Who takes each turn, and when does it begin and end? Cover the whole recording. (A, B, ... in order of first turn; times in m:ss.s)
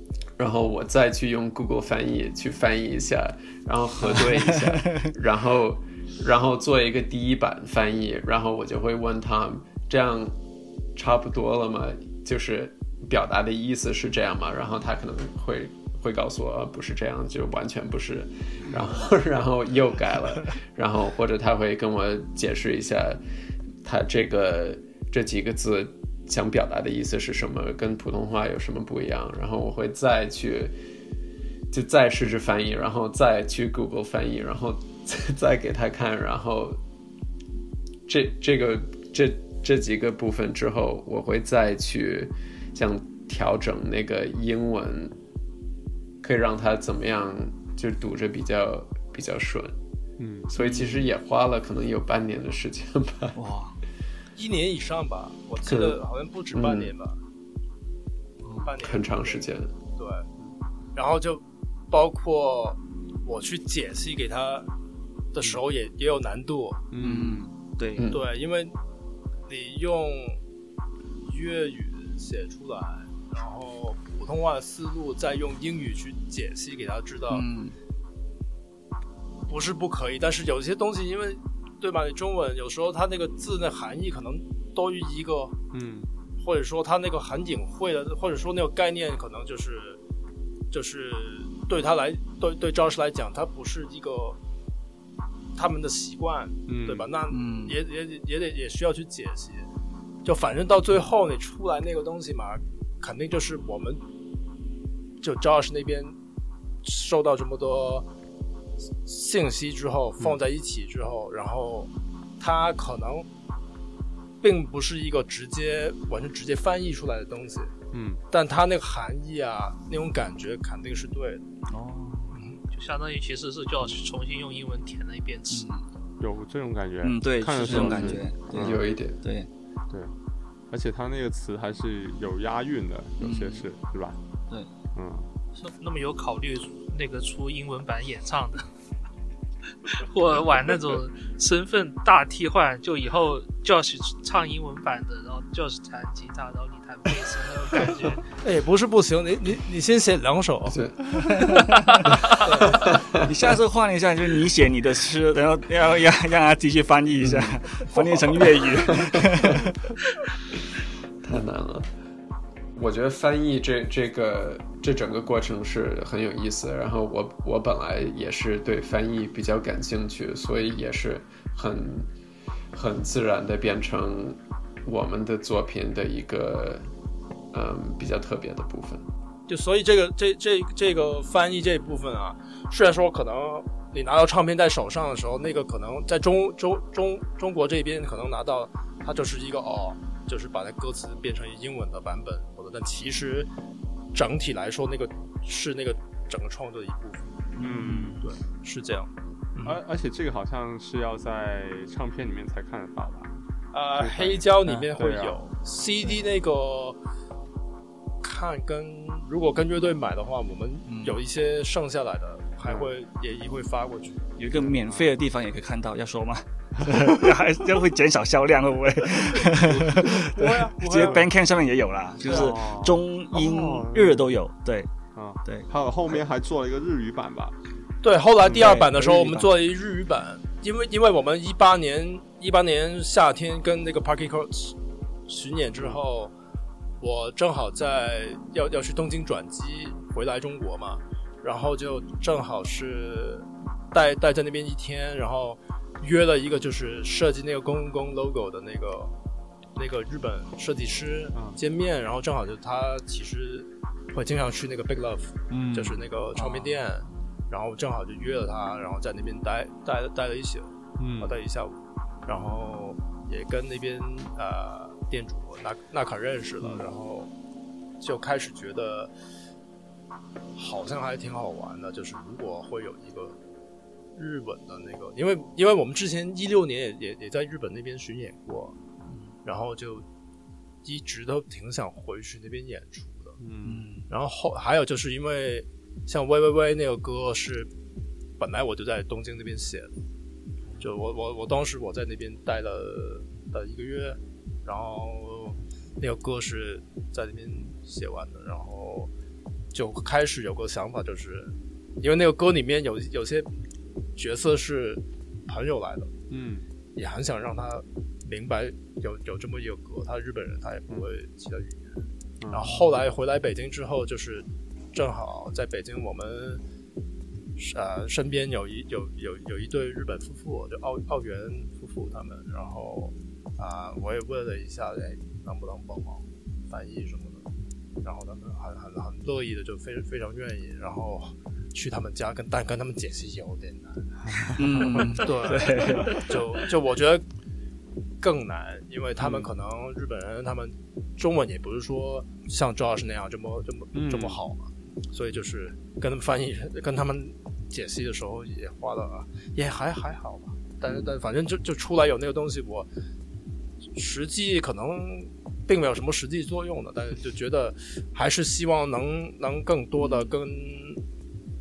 0:00.4-0:10.4 A
0:04.1-0:05.1 B
0:11.0-0:23.2 A
0:23.8-0:30.8 A
0:31.7-0:36.8 A
0:38.1-0:45.2 A
0:46.2-0:49.8 A
0:50.2-0:50.5 C
0:50.5-0:53.4 A
0:50.6-0:51.1 B
0:53.4-0:53.8 B
0:54.4-0:57.2 D
0:55.7-0:56.0 A
0:56.5-0:56.9 A
0:58.4-0:58.7 B
0:58.6-1:00.3 D
0:58.8-0:59.7 A
1:01.0-1:04.7 D
1:05.3-1:06.8 D
1:06.9-1:07.5 C
1:07.0-1:08.1 B
1:08.0-1:08.2 A
1:08.1-1:08.8 D
1:09.5-1:10.4 D
1:11.2-1:17.4 D
1:17.3-1:17.8 B
1:19.5-1:25.6 D
1:25.7-1:26.1 C
1:26.4-1:30.0 D
1:30.7-1:34.4 D
1:35.6-1:39.7 D
1:36.7-1:37.1 C
1:37.3-1:37.8 B
1:40.2-1:44.0 D
1:45.2-1:46.2 D
1:46.8-1:48.1 D
1:49.0-1:53.3 D
1:54.4-1:57.7 D
1:57.9-1:58.2 C
1:58.3-2:01.5 D
2:01.7-2:02.4 B
2:02.3-2:02.6 D
2:02.7-2:05.7 E
2:05.5-2:05.8 B
2:06.2-2:08.8 C
2:07.0-2:09.5 B
2:07.7-2:09.2 A
2:10.7-2:14.2 C
2:13.2-2:13.7 B
2:15.0-2:15.3 C
2:15.6-2:18.6 E
2:19.8-2:28.3 E
2:28.4-2:30.8 D
2:30.7-2:33.4 A
2:31.2-2:32.0 B
2:32.4-2:32.8 D
2:33.2-2:39.8 B
2:37.2-2:37.6 A
2:38.9-2:39.6 A
2:41.2-2:41.9 A
2:42.8-2:52.1 A
2:52.7-2:56.9 A
2:57.5-2:59.0 A
2:59.5-3:13.5 D
3:14.1-3:17.3 D
3:17.6-3:18.2 B
3:17.6-3:18.2 C
3:18.2-3:19.8 D
3:19.6-3:23.3 C
3:23.7-3:27.0 D
3:24.0-3:25.4 C
3:28.2-3:34.3 D
3:30.9-3:31.2 B
3:34.4-3:44.9 B
3:34.5-3:35.1 C
3:36.8-3:37.2 C
3:39.5-3:40.3 C
3:40.3-3:41.2 D
3:41.0-3:41.2 C
3:42.2-3:44.3 C
3:45.2-3:47.5 C
3:48.0-3:56.3 D
3:48.6-3:49.5 B
3:57.0-4:09.1 D
4:09.8-4:27.3 D
4:11.3-4:11.6 C
4:15.5-4:16.0 C
4:16.4-4:16.8 B
4:21.0-4:21.4 C
4:28.0-4:29.1 D
4:30.6-4:33.4 D
4:34.2-4:38.8 D
4:39.4-4:40.1 D
4:40.8-4:43.4 D
4:43.4-4:43.9 C
4:43.6-4:44.1 B
4:44.1-4:47.7 D
4:48.4-4:49.9 D
4:50.8-4:59.1 D
4:59.7-5:03.5 D
5:04.2-5:06.1 D
5:06.3-5:06.6 C
5:07.0-5:12.0 D
5:12.4-5:12.9 C
5:12.5-5:16.6 D
5:17.6-5:27.4 D
5:28.0-5:37.3 D
5:34.6-5:36.7 B
5:38.2-5:52.9 D
5:43.9-5:44.4 C
5:53.9-6:01.0 D
6:00.0-6:00.3 B